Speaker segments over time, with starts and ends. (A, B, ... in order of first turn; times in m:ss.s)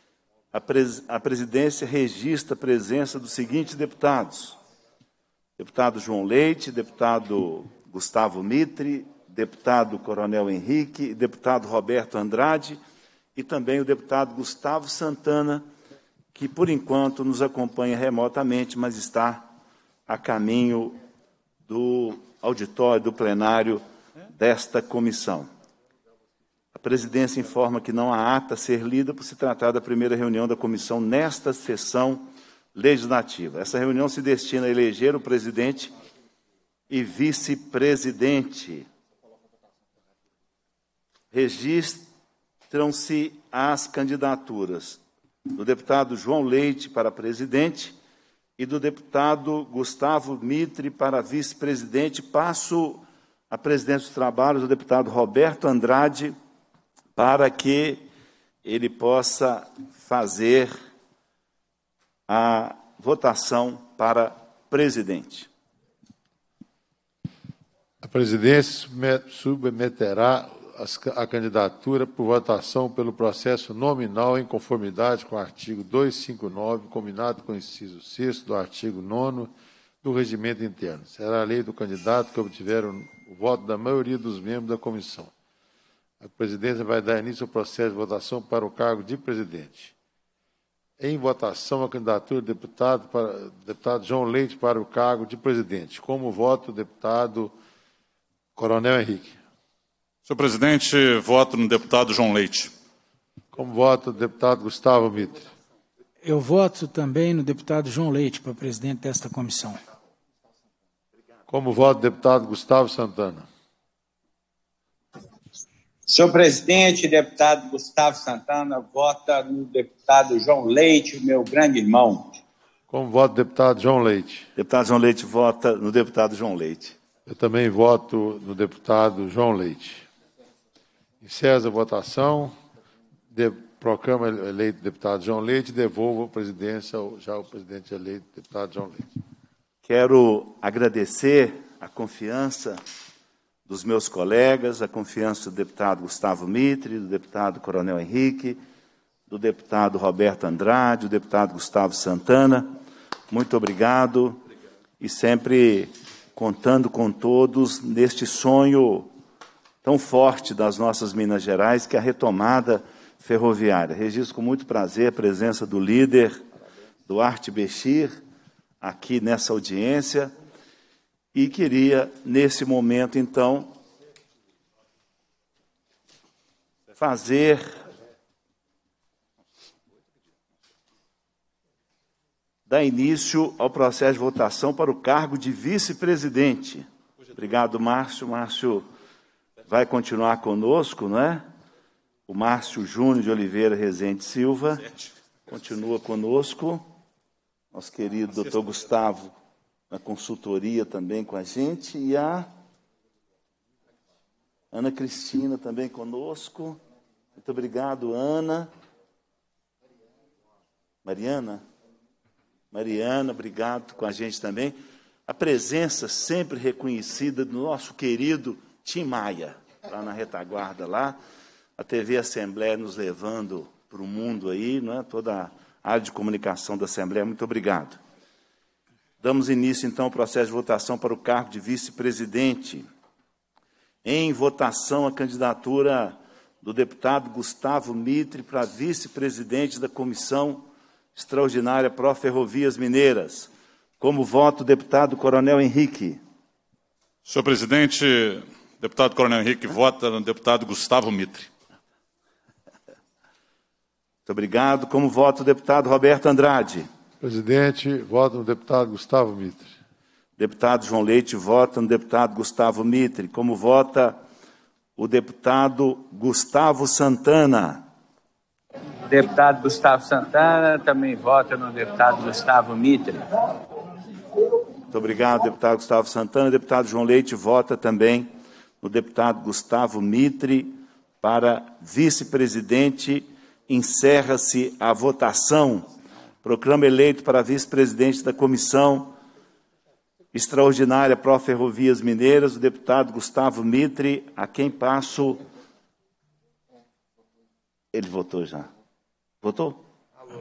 0:00.5-0:04.6 A
0:05.6-0:12.8 A
0:13.4-0:15.7 A
0:16.3-0:19.5 A
0:20.1-0:21.0 A
0:21.7-0:25.5 A
0:26.8-0:35.9 A
0:36.9-0:38.9 A
0:41.3-0:42.1 A
0:42.7-0:45.0 A
0:45.5-0:48.0 A
0:48.6-0:56.3 A
0:57.2-0:58.0 A
0:58.6-1:00.7 A
1:02.3-1:05.5 A
1:08.0-1:19.5 B
1:20.0-1:25.3 B
1:26.2-1:29.9 B
1:31.0-1:37.5 B
1:38.5-1:39.4 B
1:40.2-1:42.7 C
1:43.5-1:45.5 B
1:46.2-1:49.8 D
1:51.5-1:53.5 B
1:56.1-2:02.4 E
2:02.9-2:04.5 B
2:04.6-2:07.0 A
2:07.2-2:10.1 B
2:11.2-2:12.6 B
2:13.3-2:19.1 B
2:19.8-2:22.8 A
2:23.7-2:28.6 A
2:29.3-2:32.7 A
2:33.3-2:34.4 A
2:35.0-2:39.1 A
2:39.8-2:46.4 A
2:47.1-2:48.2 A
2:48.8-2:50.3 A
2:51.3-2:53.7 A
2:57.0-2:57.8 A
3:02.7-3:08.9 A
3:09.7-3:11.4 A
3:12.3-3:14.9 A
3:15.5-3:16.8 A
3:17.7-3:19.3 A
3:19.9-3:22.5 A
3:24.7-3:26.8 A
3:27.4-3:28.7 A
3:31.0-3:31.6 A
3:32.7-3:34.8 A
3:35.3-3:41.2 A
3:41.8-3:48.0 A
3:49.2-3:52.9 A
3:54.0-4:03.5 A
4:04.0-4:06.2 A
4:07.2-4:11.5 C
4:14.3-4:16.9 A
4:17.2-4:19.7 B
4:20.4-4:24.2 A
4:25.0-4:27.8 A
4:29.1-4:33.2 E
4:34.9-4:38.3 A
4:38.8-4:45.9 A
4:46.4-4:49.1 A
4:50.3-4:55.4 A
4:57.9-4:58.7 A
4:59.4-4:59.8 A